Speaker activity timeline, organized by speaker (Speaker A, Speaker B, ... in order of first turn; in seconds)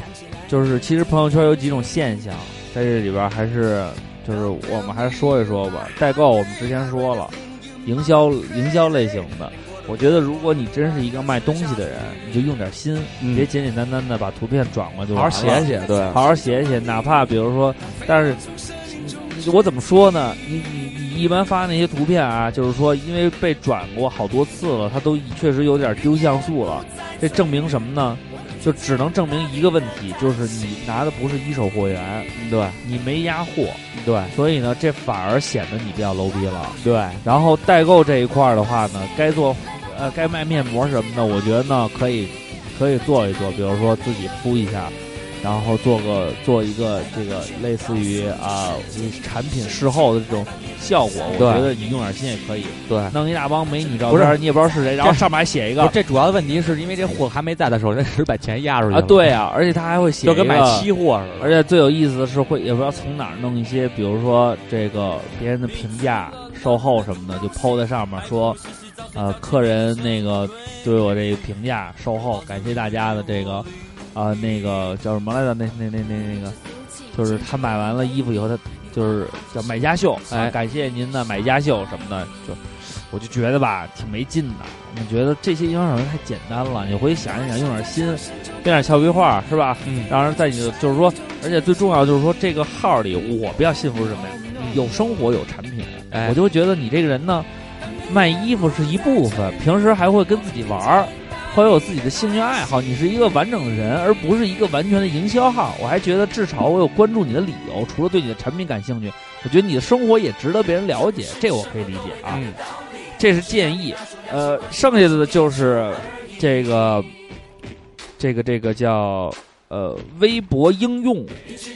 Speaker A: 0.5-32.3, 32.8-33.8, 34.3-55.9, 58.9-76.6, 77.1-112.4, 113.2-117.1, 118.2-121.4
Speaker B: 13.2-13.5, 15.1-16.2, 32.3-32.8, 33.9-34.4, 36.8-37.2, 51.3-51.7, 52.9-53.1, 54.1-54.4, 55.0-55.3, 55.8-59.3, 60.2-61.6, 80.3-80.5, 89.8-90.1, 94.5-94.8, 96.1-96.4, 112.3-112.6